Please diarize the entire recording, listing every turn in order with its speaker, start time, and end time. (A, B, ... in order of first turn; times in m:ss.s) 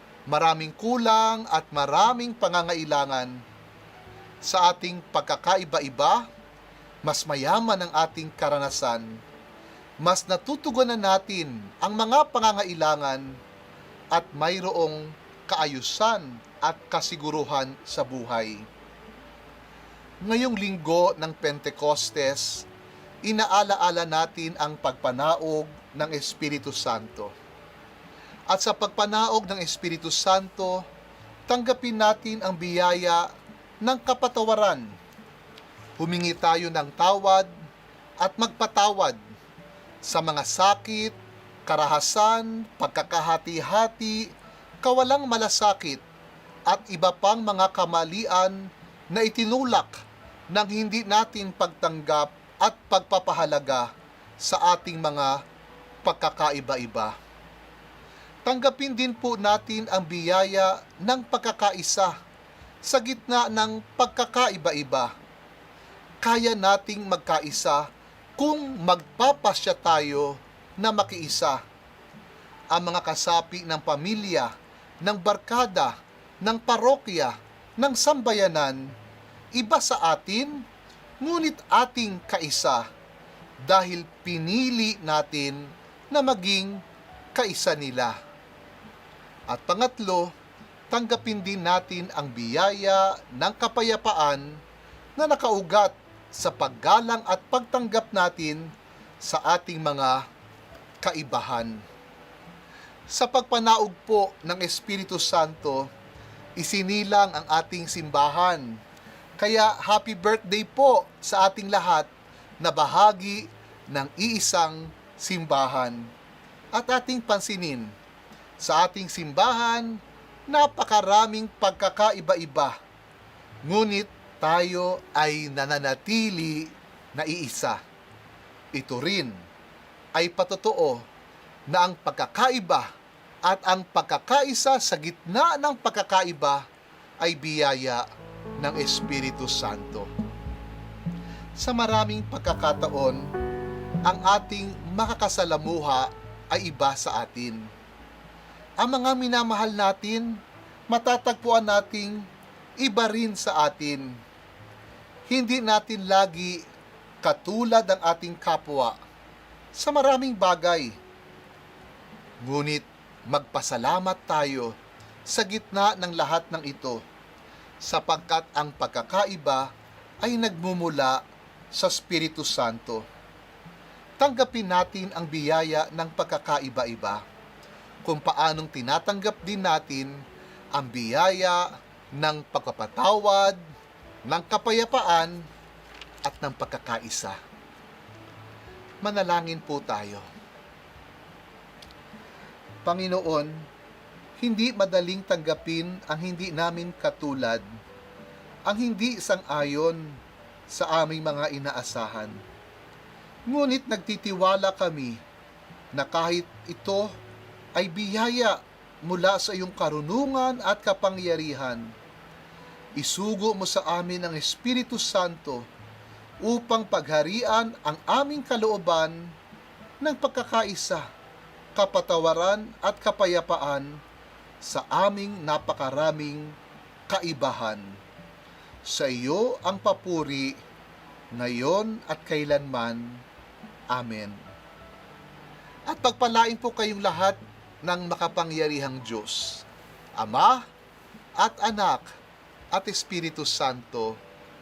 0:00.3-0:03.4 A
0:04.4-0:06.3 A
0:07.0-0:09.1 A
0:10.0-0:13.4 A
0:14.1-0:18.7 A
0:20.2-0:22.7 A
0:23.2-0:27.3 A
0:28.5-0:30.8 A
0:31.5-0:33.3 A
0:33.8-0:34.9 A
0:36.0-0:37.5 A
0:38.2-0:39.2 A
0:40.0-0:44.3 A
0:44.8-0:46.0 A
0:46.7-0:50.0 A
0:50.5-0:53.9 A
0:54.4-0:55.4 A
0:56.0-0:57.2 A
0:58.4-1:02.1 A
1:02.8-1:05.1 A
1:06.2-1:07.9 A
1:08.4-1:11.6 A
1:12.7-1:14.5 A
1:15.0-1:18.9 A
1:19.6-1:20.6 A
1:21.2-1:22.9 A
1:23.6-1:26.8 A
1:27.4-1:28.2 A
1:29.5-1:30.3 A
1:30.9-1:34.6 A
1:35.2-1:38.7 A
1:39.2-1:40.2 A
1:41.0-1:41.8 A
1:43.1-1:45.8 A
1:46.6-1:48.8 A
1:49.4-1:56.1 A
1:56.7-1:57.9 A
1:58.6-2:02.8 A
2:03.7-2:07.8 A
2:08.7-2:09.4 A
2:10.2-2:11.0 A
2:11.7-2:12.9 A
2:13.4-2:16.7 A
2:17.2-2:18.0 A
2:18.6-2:20.1 A
2:21.6-2:23.3 A
2:24.1-2:27.7 A
2:28.8-2:32.3 A
2:32.8-2:34.2 A
2:35.3-2:36.6 A
2:37.2-2:39.0 A
2:39.8-2:41.0 A
2:42.4-2:44.7 A
2:45.3-2:47.0 A
2:47.8-2:49.7 A
2:50.2-2:53.0 A
2:54.2-2:57.2 A
2:58.0-3:00.2 A
3:00.7-3:03.6 A
3:04.3-3:05.5 A
3:06.2-3:07.4 A
3:09.0-3:10.3 A
3:12.8-3:13.7 A
3:14.4-3:17.7 A
3:18.7-3:20.2 A
3:20.7-3:22.4 A
3:23.5-3:25.2 A
3:25.9-3:27.1 A
3:27.8-3:31.9 A
3:33.0-3:35.6 A
3:36.4-3:39.3 A
3:40.0-3:41.1 A
3:41.8-3:44.0 A
3:44.6-3:46.6 A
3:47.1-3:47.9 A
3:48.8-3:50.6 A
3:51.3-3:53.2 A
3:53.9-3:54.4 A
3:55.9-3:59.6 A
4:00.2-4:00.6 A
4:01.4-4:02.1 A
4:02.7-4:04.2 A